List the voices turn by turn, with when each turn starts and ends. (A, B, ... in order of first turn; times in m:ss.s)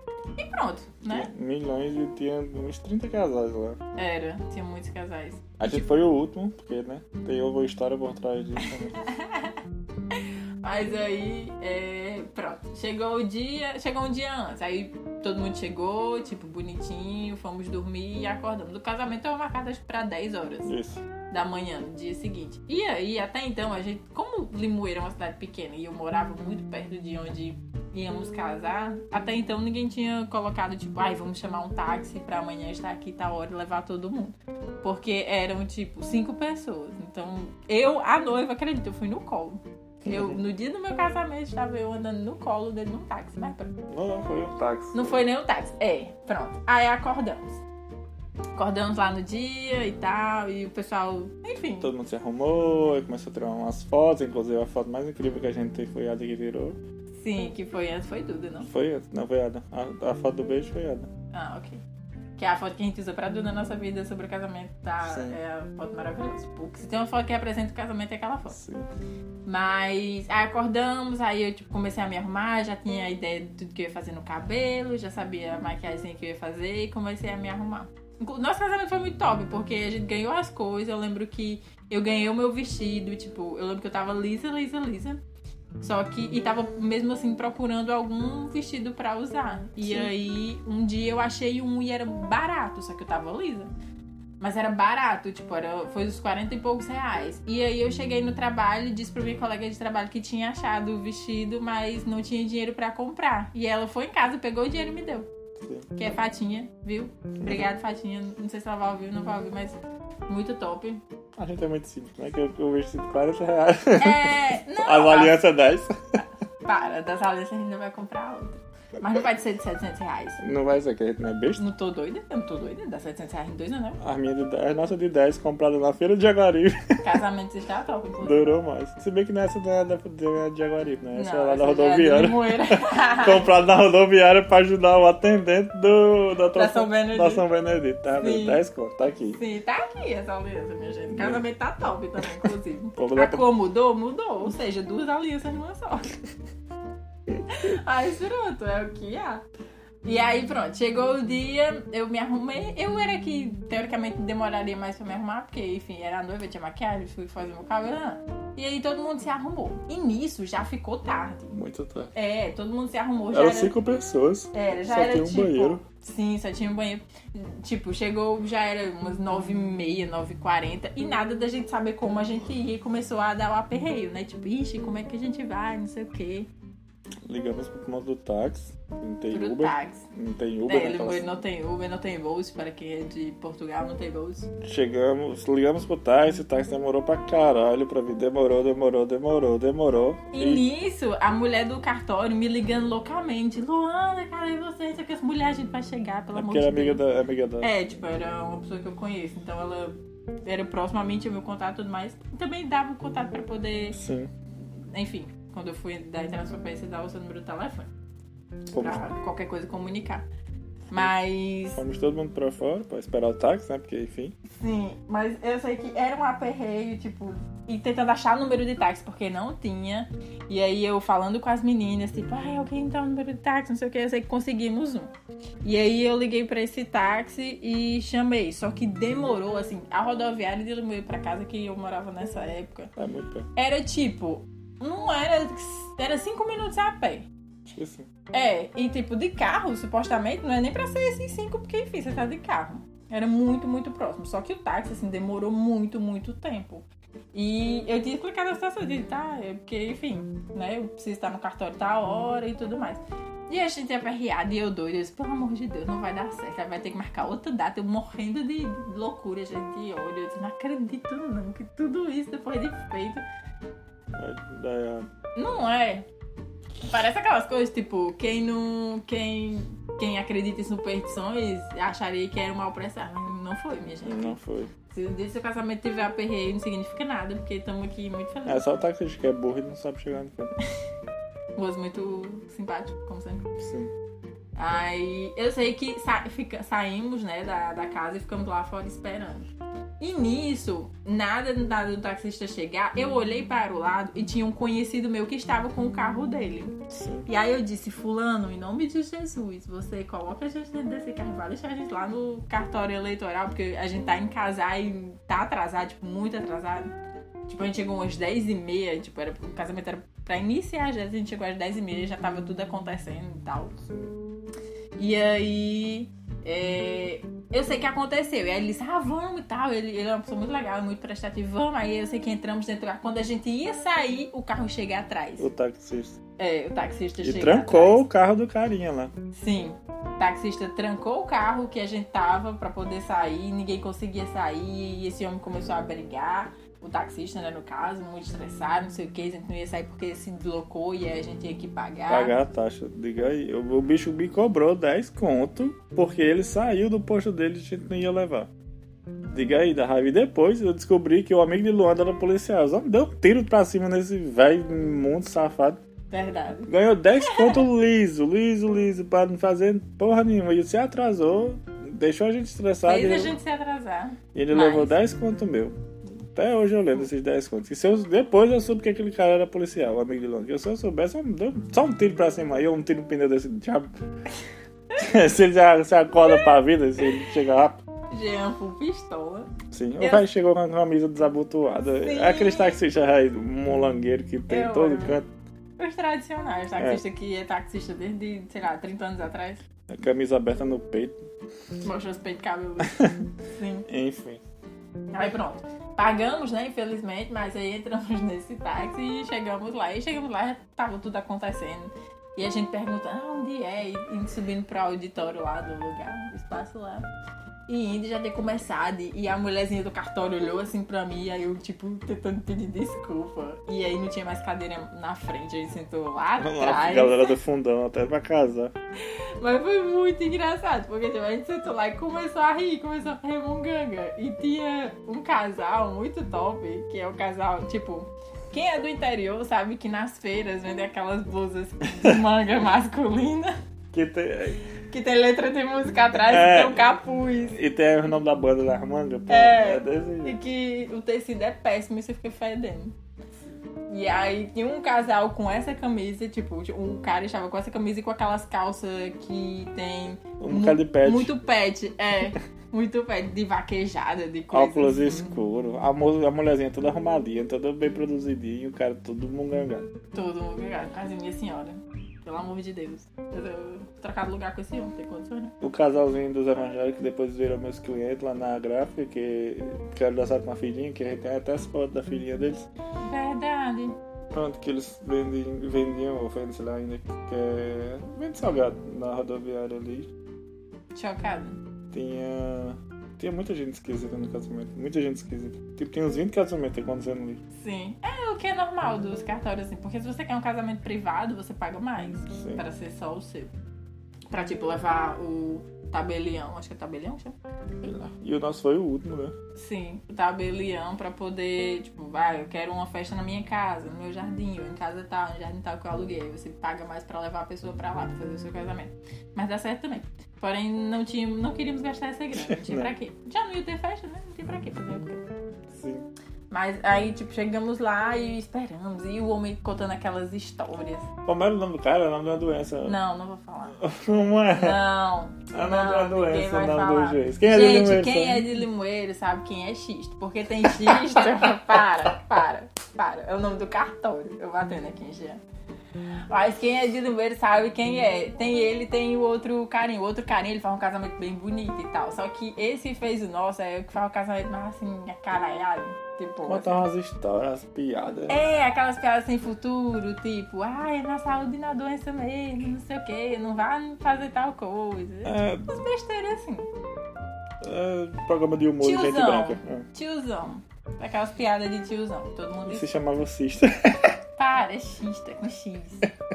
0:00.4-0:01.3 A
0:01.0-0:03.8 B
0:04.0-0:05.8 A
0:05.6-0:09.0 B
0:09.0-0:09.6 A
0:10.1-0:20.7 A
0:20.6-0:21.0 B
0:21.3-0:43.7 A
0:40.0-0:40.4 B
0:43.9-0:45.2 B
0:44.9-0:47.6 A
0:48.6-0:51.9 A
0:51.8-0:56.8 B
0:57.2-0:58.7 A
0:58.6-1:01.1 B
1:01.3-1:01.8 A
1:02.4-1:08.6 A
1:05.0-1:05.4 B
1:08.5-1:08.9 B
1:09.4-1:25.2 A
1:25.8-1:33.7 A
1:29.8-1:30.1 B
1:34.4-1:45.3 A
1:45.6-1:45.9 B
1:46.0-1:51.0 A
1:51.4-1:56.2 B
1:54.0-1:55.4 A
1:56.6-2:00.4 A
2:00.4-2:01.6 B
2:01.6-2:04.0 A
2:04.0-2:07.2 B
2:07.0-2:08.4 A
2:08.2-2:19.4 B
2:11.1-2:13.5 A
2:16.5-2:17.4 A
2:18.2-2:18.6 A
2:19.3-2:26.1 A
2:21.1-2:21.4 B
2:23.0-2:23.4 B
2:27.5-2:29.4 A
2:30.0-2:41.5 A
2:41.5-2:42.1 B
2:42.1-2:43.7 A
2:43.3-2:45.8 B
2:44.5-2:56.5 A
2:57.3-3:01.3 B
2:59.3-3:00.1 A
3:00.6-3:04.5 A
3:04.6-3:10.6 B
3:10.3-3:17.0 A
3:16.3-3:17.7 B
3:17.6-3:24.0 A
3:23.9-3:24.3 B
3:24.9-3:27.9 A
3:28.7-3:29.0 B
3:28.8-3:30.2 A
3:30.9-3:31.8 A
3:31.7-3:34.4 B
3:34.5-3:45.1 A
3:45.6-3:52.9 A
3:53.0-3:53.5 B
3:53.6-3:57.3 A
3:57.7-3:58.1 B
3:58.3-4:23.2 A
4:24.1-4:25.1 B
4:25.4-4:26.1 A
4:26.9-4:34.4 A
4:34.0-4:34.7 B
4:34.9-4:38.6 A
4:38.4-4:40.5 B
4:41.6-4:43.4 A
4:43.6-4:43.9 B
4:44.6-4:49.5 A
4:50.0-5:06.9 A
4:56.9-4:57.3 B
5:07.5-5:13.8 A
5:13.9-5:14.1 B
5:15.0-5:25.5 A
5:25.4-5:26.2 B
5:26.4-5:28.0 A
5:27.2-5:29.1 B
5:29.3-5:42.3 A
5:42.1-5:48.5 B
5:49.3-5:55.8 B
5:56.1-5:57.6 A
5:56.7-6:03.3 B
6:02.8-6:04.9 A
6:04.3-6:05.8 B
6:06.3-6:13.9 B
6:15.0-6:17.8 B
6:16.3-6:16.5 A
6:18.1-6:20.2 A
6:19.7-6:25.3 B
6:22.0-6:22.8 A
6:24.5-6:25.2 A
6:25.8-6:29.6 A
6:26.8-6:27.0 B
6:29.9-6:31.2 B
6:31.8-6:33.8 A
6:32.9-6:33.2 B
6:33.9-6:34.4 B
6:35.1-6:47.1 A
6:47.7-6:57.4 A
6:56.4-6:58.7 B
6:59.0-7:13.5 A
7:13.9-7:14.7 B
7:14.9-7:17.6 A
7:16.3-7:17.0 B
7:17.5-7:20.4 B
7:19.3-7:22.9 A
7:23.9-7:35.3 A
7:30.4-7:31.3 B
7:34.5-7:39.9 B
7:40.1-7:45.5 A
7:45.6-7:52.7 B
7:53.0-7:54.0 A
7:54.3-8:00.1 B
8:00.9-8:01.6 A
8:01.9-8:07.4 B
8:07.5-8:13.5 A
8:12.3-8:12.6 B
8:14.3-8:17.4 A
8:17.8-8:19.3 B
8:19.5-8:35.2 A
8:32.3-8:32.9 B
8:35.7-8:36.0 B
8:36.5-8:41.1 A
8:41.2-8:43.0 B
8:42.8-8:43.8 A
8:43.8-8:44.8 B
8:44.5-8:55.4 A
8:45.5-8:48.5 B
8:56.3-9:06.8 A
9:06.4-9:08.4 B
9:08.3-9:16.7 A
9:15.2-9:15.7 B
9:17.6-9:19.8 B
9:18.8-9:22.9 A
9:22.6-9:24.2 B
9:24.4-9:26.1 A